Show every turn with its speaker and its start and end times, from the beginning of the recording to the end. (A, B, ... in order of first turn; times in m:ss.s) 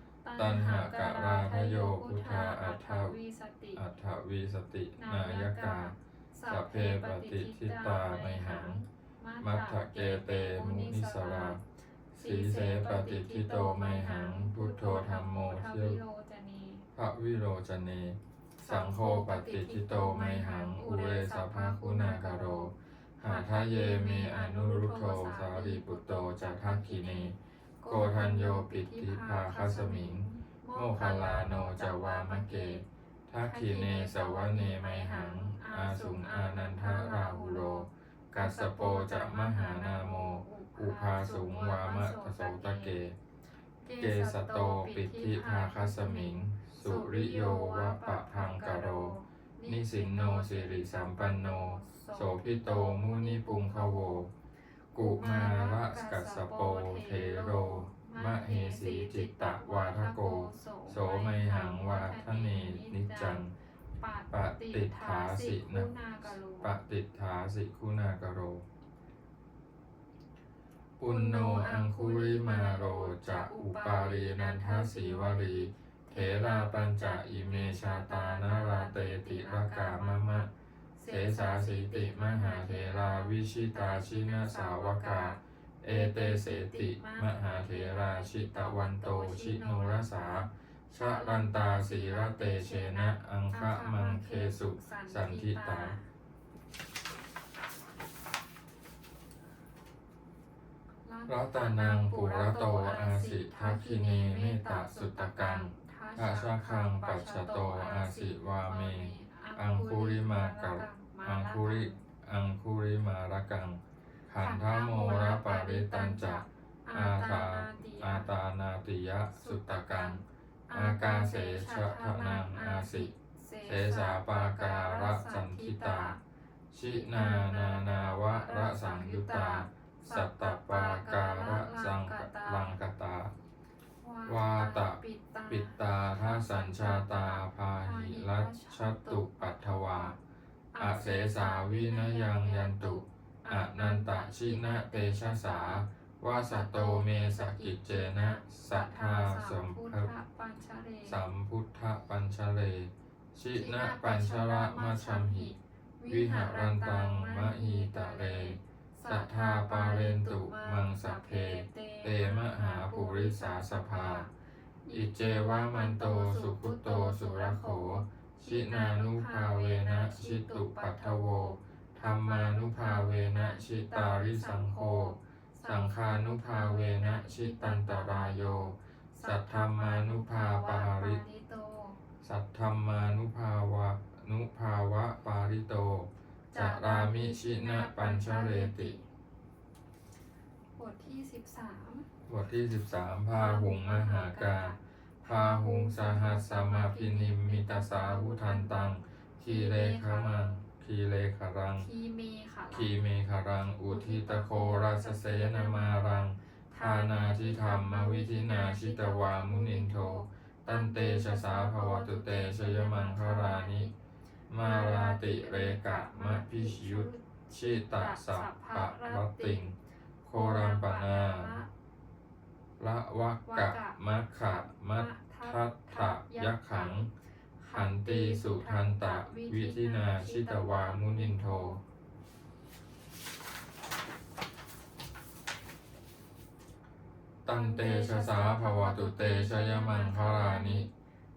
0:00.2-0:03.8 A
0:00.4-0:03.2 B
0:03.7-0:05.9 B
0:05.0-0:11.6 A
0:06.5-0:08.8 B
0:09.4-0:11.6 B
0:12.1-0:16.0 B
0:12.2-0:16.8 A
0:16.9-0:27.4 B
0:18.6-0:32.8 A
0:27.9-0:43.2 B
0:33.4-0:43.0 A
0:43.8-0:54.2 A
0:44.0-0:54.3 B
0:54.9-1:03.5 B
0:55.0-1:03.4 A
1:04.0-1:06.7 A
1:04.3-1:05.9 B
1:06.6-1:08.6 B
1:11.0-1:20.5 B
1:11.0-1:36.0 A
1:21.1-1:36.0 B
1:41.0-1:52.0 A
1:41.3-2:00.2 B
1:54.4-1:58.3 A
1:59.3-2:06.2 A
2:00.7-2:03.1 B
2:03.6-2:06.1 B
2:06.7-2:13.3 B
2:06.8-2:12.8 A
2:14.0-2:20.2 A
2:14.2-2:20.1 B
2:20.7-2:31.2 A
2:20.8-2:30.1 B
2:31.0-2:35.5 B
2:33.5-2:44.3 A
2:36.1-2:44.2 B
2:44.8-3:02.0 A
2:44.9-3:01.2 B
3:02.2-3:08.9 B
3:06.5-3:09.1 A
3:10.8-3:12.1 A
3:12.2-3:21.9 B
3:13.3-3:20.6 A
3:21.8-3:22.9 A
3:22.7-3:33.9 B
3:23.9-3:33.9 A
3:34.5-3:41.5 B
3:34.6-3:37.3 A
3:37.9-3:39.7 A
3:40.3-3:41.7 A
3:42.8-3:47.1 B
3:43.5-3:47.1 A
3:47.6-3:51.8 A
3:47.7-3:51.8 B
3:57.4-4:00.8 B
3:57.4-4:00.9 A